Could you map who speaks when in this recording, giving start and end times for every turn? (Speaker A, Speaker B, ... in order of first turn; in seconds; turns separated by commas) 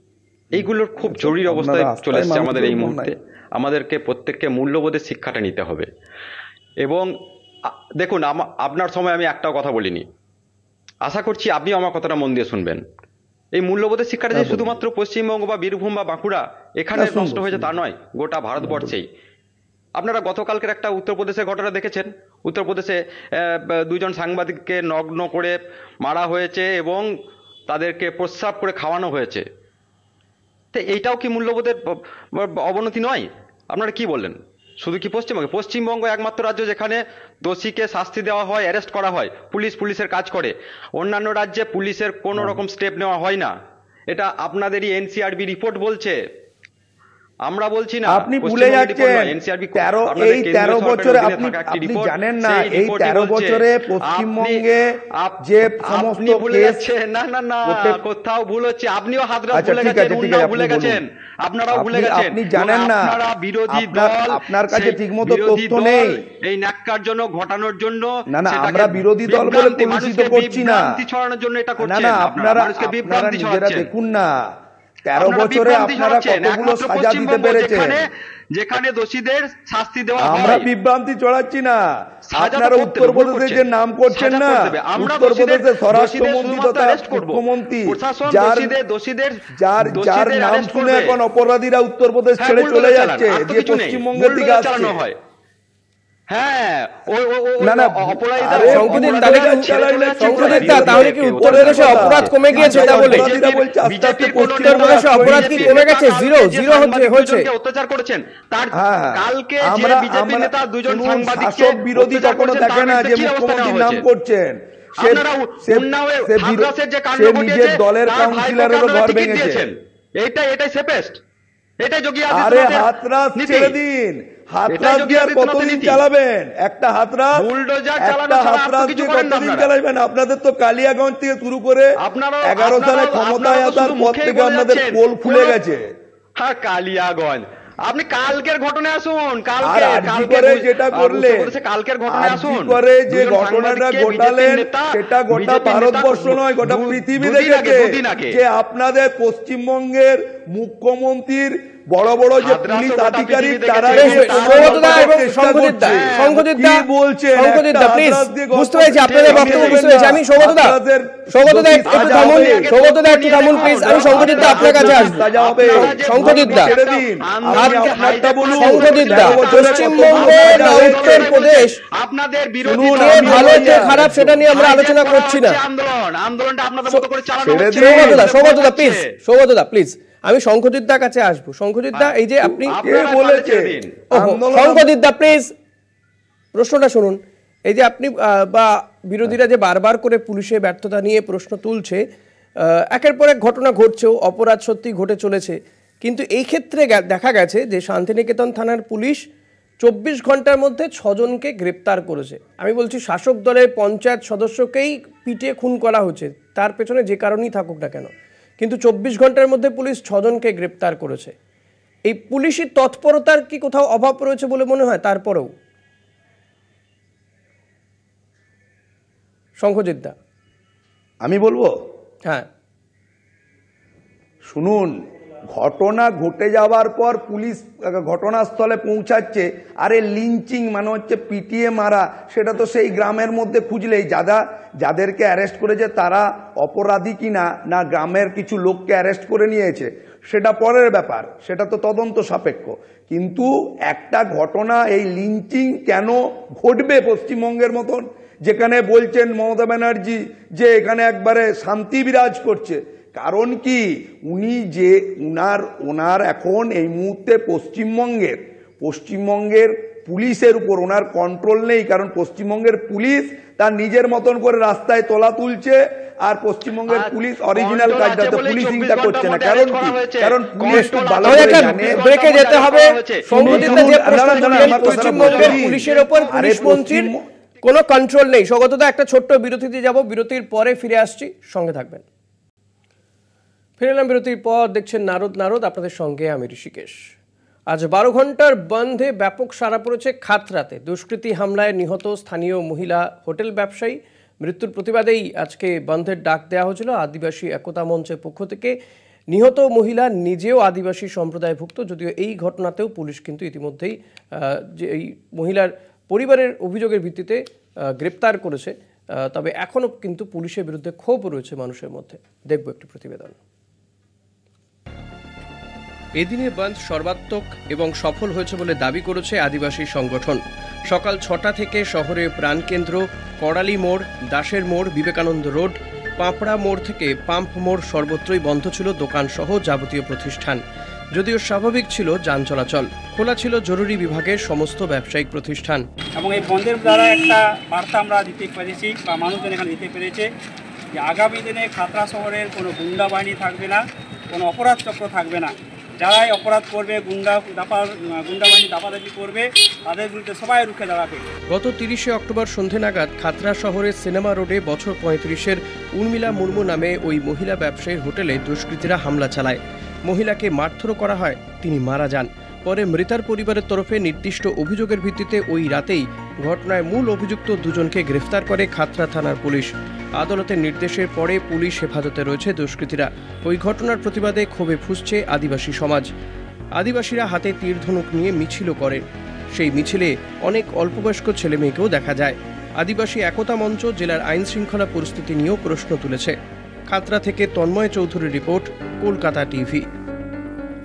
Speaker A: 0.5-3.1, Speaker B: 0.5-5.9, Speaker B: 6.8-7.1, Speaker B: 7.7-10.1, Speaker B: 11.0-12.8, Speaker B: 13.6-19.1, Speaker A: 14.3-14.8, Speaker A: 16.9-17.8, Speaker A: 18.6-18.9, Speaker B: 20.0-27.1, Speaker B: 27.7-29.4, Speaker B: 30.7-43.5, Speaker B: 44.1-46.2, Speaker B: 47.5-54.6, Speaker A: 48.1-56.9, Speaker B: 55.2-73.9, Speaker A: 57.7-58.0, Speaker A: 59.5-61.0, Speaker A: 61.7-63.1, Speaker A: 63.7-66.2, Speaker A: 68.3-70.9, Speaker A: 71.8-74.5, Speaker A: 75.1-78.0, Speaker B: 75.2-80.7, Speaker A: 80.2-88.8, Speaker B: 82.3-91.2, Speaker A: 89.5-95.0, Speaker B: 92.4-95.2, Speaker B: 96.3-114.0, Speaker A: 97.6-105.8, Speaker C: 98.5-103.3, Speaker C: 104.6-107.5, Speaker A: 108.7-119.7, Speaker B: 115.0-121.2, Speaker B: 121.8-123.8, Speaker A: 122.3-127.4, Speaker B: 124.7-126.0, Speaker B: 127.4-129.7, Speaker A: 128.0-135.9, Speaker B: 132.0-135.6, Speaker B: 136.4-148.4, Speaker A: 139.6-141.5, Speaker A: 142.1-162.8, Speaker B: 152.4-155.1, Speaker C: 153.9-160.8, Speaker B: 155.8-156.3, Speaker B: 159.1-159.8, Speaker C: 161.3-165.1, Speaker B: 161.9-179.0, Speaker A: 163.5-171.4, Speaker C: 165.7-166.7, Speaker C: 167.6-167.9, Speaker C: 168.5-171.8, Speaker A: 172.6-174.4, Speaker C: 172.9-175.6, Speaker A: 177.4-178.3, Speaker C: 177.8-182.7, Speaker A: 182.5-184.9, Speaker B: 182.7-183.9, Speaker C: 184.1-185.5, Speaker C: 186.6-192.0, Speaker C: 192.7-199.2, Speaker C: 199.8-211.3, Speaker C: 212.1-215.5, Speaker C: 219.6-220.2, Speaker A: 221.2-221.7, Speaker A: 224.4-225.0, Speaker A: 225.5-272.0, Speaker B: 266.9-276.3, Speaker C: 271.2-277.1, Speaker A: 273.3-277.2, Speaker C: 277.6-282.0, Speaker C: 283.8-287.0, Speaker C: 287.7-298.8, Speaker C: 299.3-307.4, Speaker C: 308.0-313.4, Speaker C: 316.2-330.6, Speaker C: 331.1-335.9, Speaker D: 336.2-340.3, Speaker D: 341.0-343.8, Speaker D: 344.3-351.3, Speaker C: 351.5-376.1, Speaker C: 376.8-386.4, Speaker C: 386.9-389.9